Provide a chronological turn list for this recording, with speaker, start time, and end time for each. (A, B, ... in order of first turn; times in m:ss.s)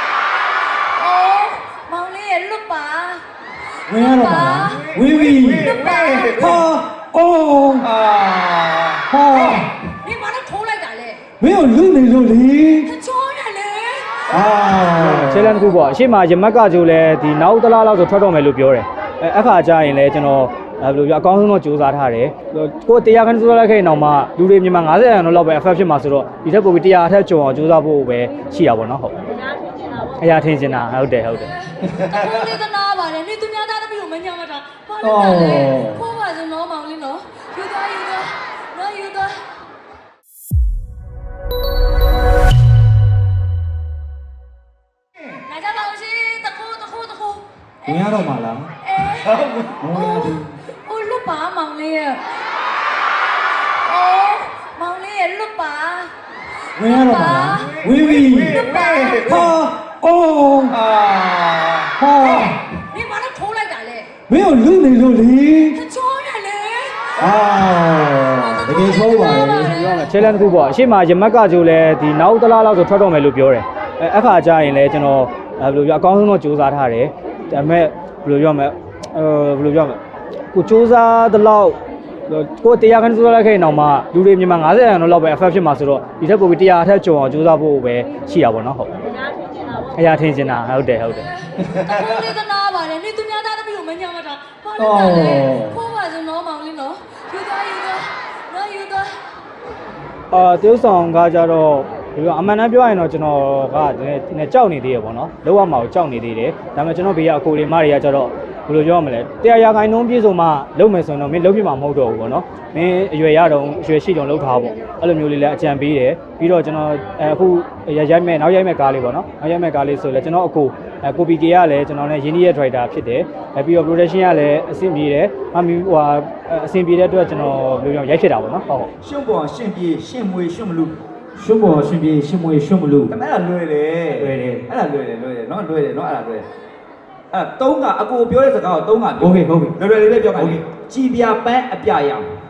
0:00.9-0:03.2 A
0:03.9-0:05.8 B
0:03.9-0:06.6 A
0:06.3-0:07.9 B
0:07.9-0:09.0 C
0:09.1-0:09.7 B
0:09.3-0:11.2 A
0:11.4-0:12.9 B
0:12.8-0:14.3 A
0:14.3-0:15.6 B
0:14.9-0:29.2 D
0:30.2-0:31.5 D
0:31.8-0:39.4 A
0:35.0-0:36.0 B
0:45.4-0:52.3 A
0:47.9-0:48.7 B
0:49.8-0:50.4 B
0:53.8-0:56.1 A
0:56.8-0:58.6 B
0:56.8-0:59.5 A
0:59.2-1:00.8 B
1:01.0-1:01.8 C
1:02.0-1:02.6 B
1:02.1-1:04.1 A
1:04.3-1:05.8 B
1:05.7-1:07.7 A
1:07.2-1:09.7 B
1:08.4-1:10.0 A
1:09.6-1:20.0 D
1:20.5-1:29.0 D
1:29.9-1:31.3 D
1:31.6-1:39.2 A
1:34.8-1:35.8 B
1:40.3-2:08.9 D
2:09.0-2:11.0 C
2:11.4-2:13.2 D
2:13.1-2:16.5 C
2:14.1-2:14.7 D
2:17.3-2:22.3 C
2:19.2-2:19.8 D
2:20.4-2:20.6 D